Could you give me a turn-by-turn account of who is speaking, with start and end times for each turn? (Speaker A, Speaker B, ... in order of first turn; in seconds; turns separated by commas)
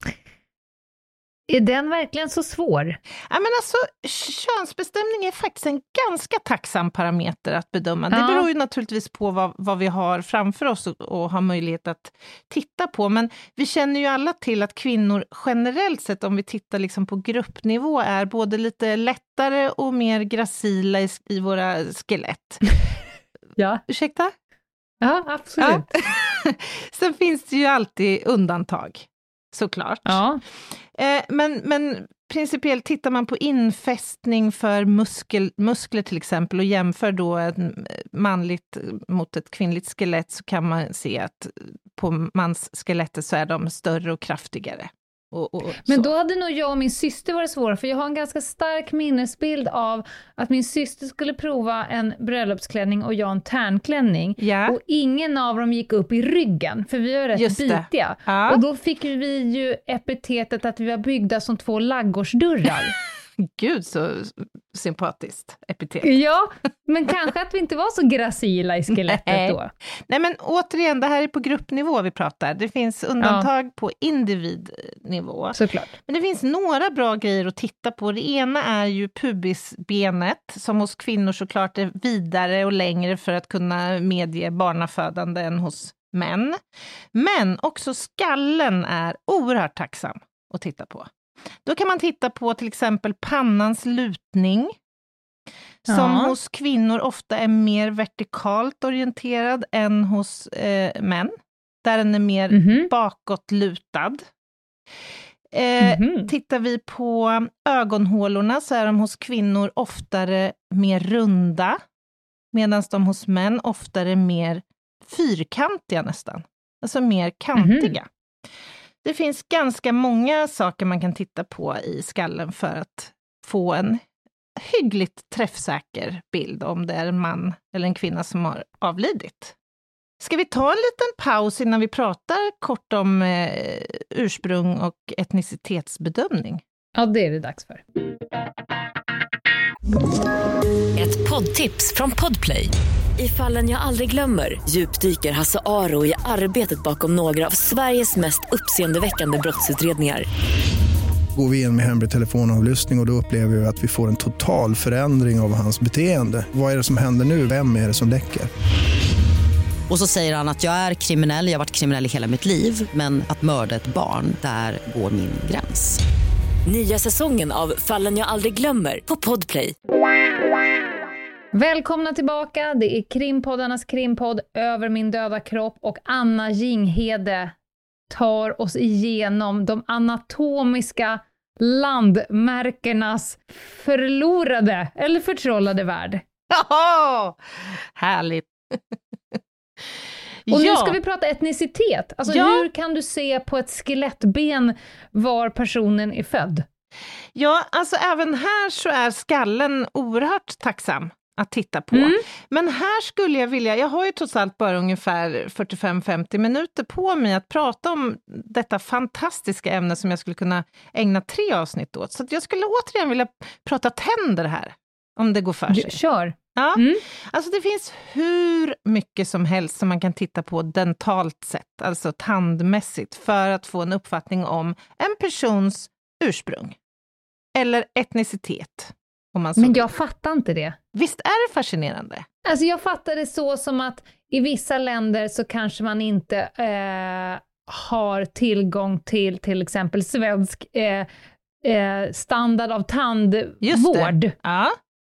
Speaker A: 1.5-3.0, Speaker B: 3.3-22.6, Speaker A: 8.1-8.4, Speaker A: 23.6-23.8, Speaker B: 23.9-24.3, Speaker A: 25.0-25.9, Speaker B: 25.6-30.2, Speaker A: 30.1-30.4, Speaker B: 30.9-46.1, Speaker A: 45.8-62.9, Speaker B: 54.4-54.8, Speaker B: 57.3-58.6, Speaker B: 63.4-66.1, Speaker A: 66.0-69.7, Speaker B: 68.9-69.6, Speaker B: 70.1-86.6, Speaker A: 73.2-73.5, Speaker A: 75.5-75.9, Speaker B: 87.1-91.1, Speaker B: 91.7-94.8, Speaker A: 95.9-96.3, Speaker B: 95.9-104.2, Speaker A: 102.5-102.9, Speaker B: 105.5-111.8, Speaker A: 105.8-106.3, Speaker B: 112.5-118.1, Speaker A: 117.5-118.0, Speaker B: 119.0-124.0, Speaker B: 124.5-129.5, Speaker B: 130.2-136.6, Speaker A: 136.9-137.8, Speaker C: 140.9-150.2, Speaker D: 151.3-158.5, Speaker E: 159.9-166.0, Speaker C: 166.7-169.7, Speaker A: 171.5-177.6, Speaker A: 178.1-186.2, Speaker B: 186.5-188.9, Speaker B: 190.5-191.0, Speaker A: 190.5-196.7, Speaker B: 192.3-192.7, Speaker B: 197.3-215.9, Speaker A: 201.9-202.2, Speaker A: 215.7-217.0, Speaker B: 216.5-226.8, Speaker B: 227.5-229.9, Speaker A: 229.6-230.8, Speaker B: 230.9-232.2, Speaker A: 232.4-241.1, Speaker A: 241.6-244.3, Speaker B: 243.6-244.8